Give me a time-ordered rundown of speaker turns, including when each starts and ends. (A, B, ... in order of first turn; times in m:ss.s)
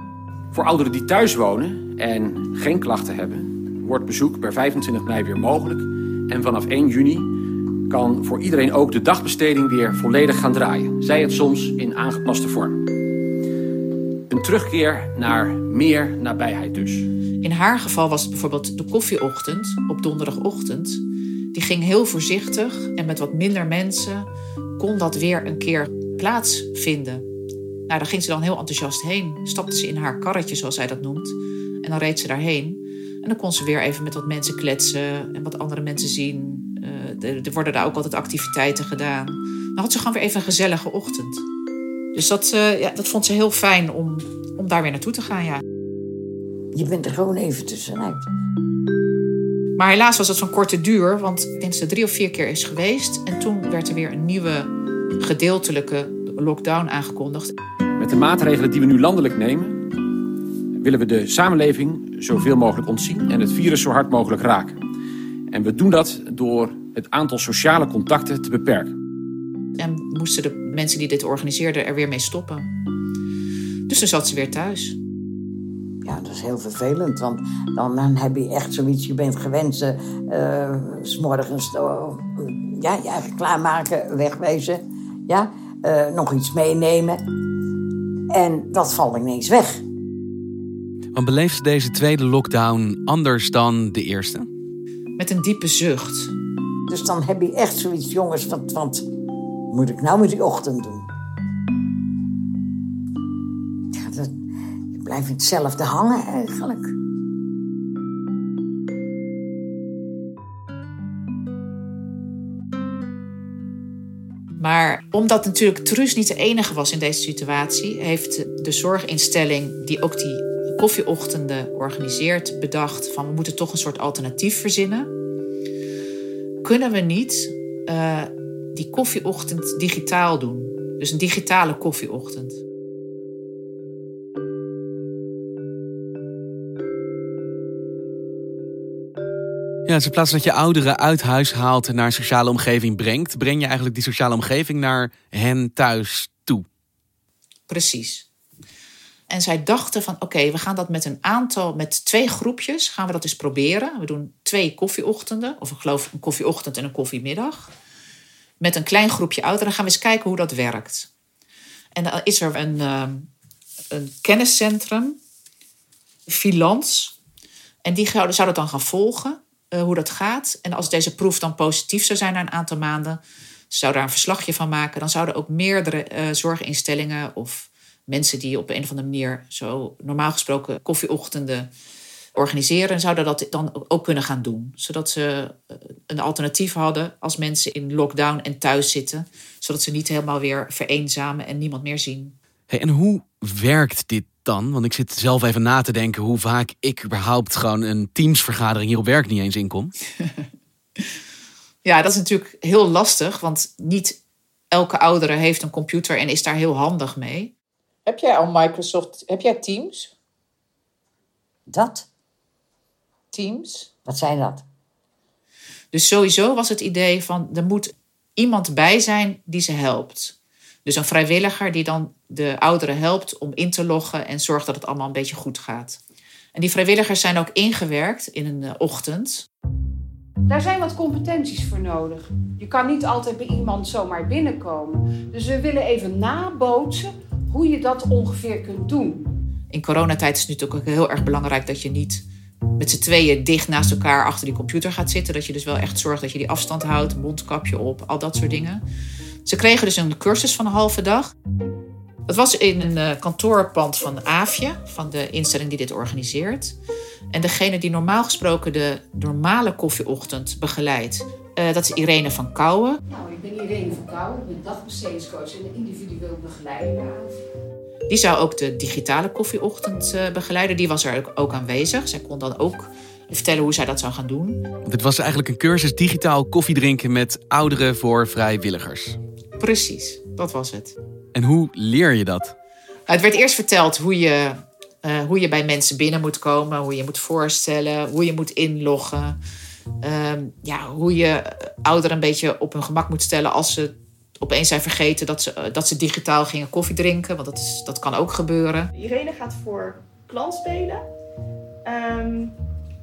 0:00.5-0:12.9 A
0:14.3-0:17.1 A
0:17.4-0:21.0 B
0:21.5-0:24.3 B
0:24.8-0:27.2 B
0:27.9-0:41.4 B
0:42.2-0:45.6 B
0:46.8-0:48.2 C
0:49.8-0:57.5 B
0:58.0-0:59.9 A
1:00.8-1:04.8 A
1:05.5-1:09.0 A
1:09.8-1:12.7 B
1:13.9-1:15.0 B
1:16.0-1:27.2 C
1:28.3-1:29.8 C
1:31.1-1:34.5 D
1:35.2-1:36.3 B
1:36.9-1:39.0 C
1:39.7-1:41.1 C
1:44.0-1:44.3 C
1:44.9-1:46.9 C
1:54.6-2:05.1 B
2:06.6-2:12.6 B
2:19.9-2:26.6 D
2:27.7-2:28.3 B
2:29.3-2:37.7 B
2:38.6-2:41.1 B
2:42.0-2:43.3 B
2:43.9-2:45.2 B
2:46.3-2:47.2 B
2:47.8-2:53.2 B
2:53.7-3:01.7 B
3:02.4-3:12.3 B
3:12.7-3:19.9 D
3:21.8-3:24.2 B
3:24.7-3:27.5 B
3:28.1-3:30.1 B
3:31.7-3:32.1 C
3:33.3-3:33.9 B
3:34.1-3:34.6 C
3:35.9-3:46.0 B
3:46.5-3:49.4 B
3:50.5-3:59.3 E
3:59.7-4:02.3 B
4:02.8-4:08.8 B
4:09.5-4:11.3 B
4:12.3-4:16.8 B
4:17.3-4:23.0 B
4:23.1-4:27.4 E
4:28.1-4:34.6 B
4:34.9-4:39.2 D
4:39.6-4:40.9 B
4:41.4-4:42.6 D
4:43.1-4:49.4 B
4:50.0-4:58.9 B
4:58.9-5:01.0 F
5:01.8-5:02.6 F